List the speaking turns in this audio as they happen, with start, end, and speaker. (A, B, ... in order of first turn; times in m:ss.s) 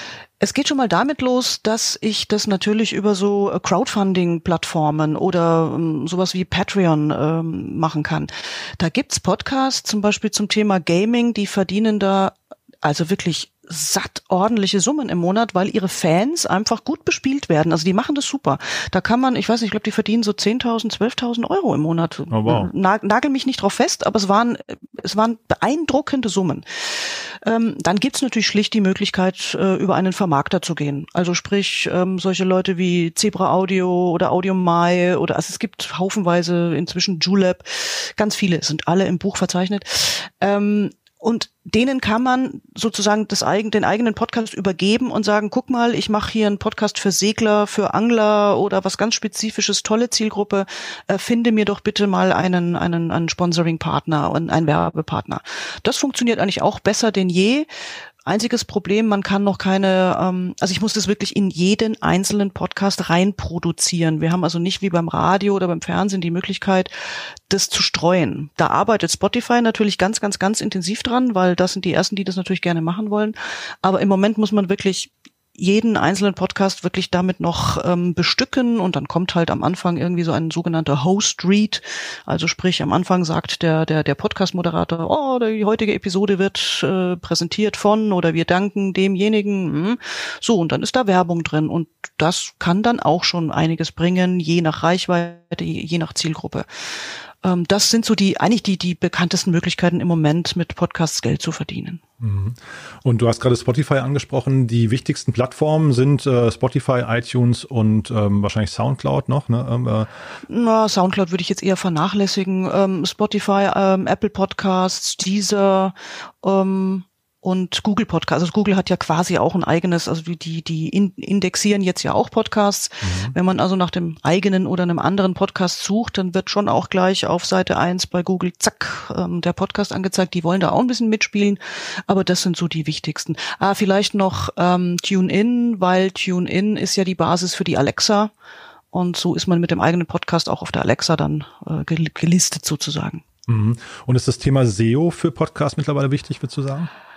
0:00.4-0:57.7 A
0:22.3-0:22.7 B
0:58.2-1:06.9 A
1:07.5-1:36.7 A
1:37.4-1:42.0 A
1:42.2-1:50.1 B
1:50.5-2:18.3 A
2:03.0-2:03.3 B
2:18.9-2:23.2 A
2:23.5-2:26.9 B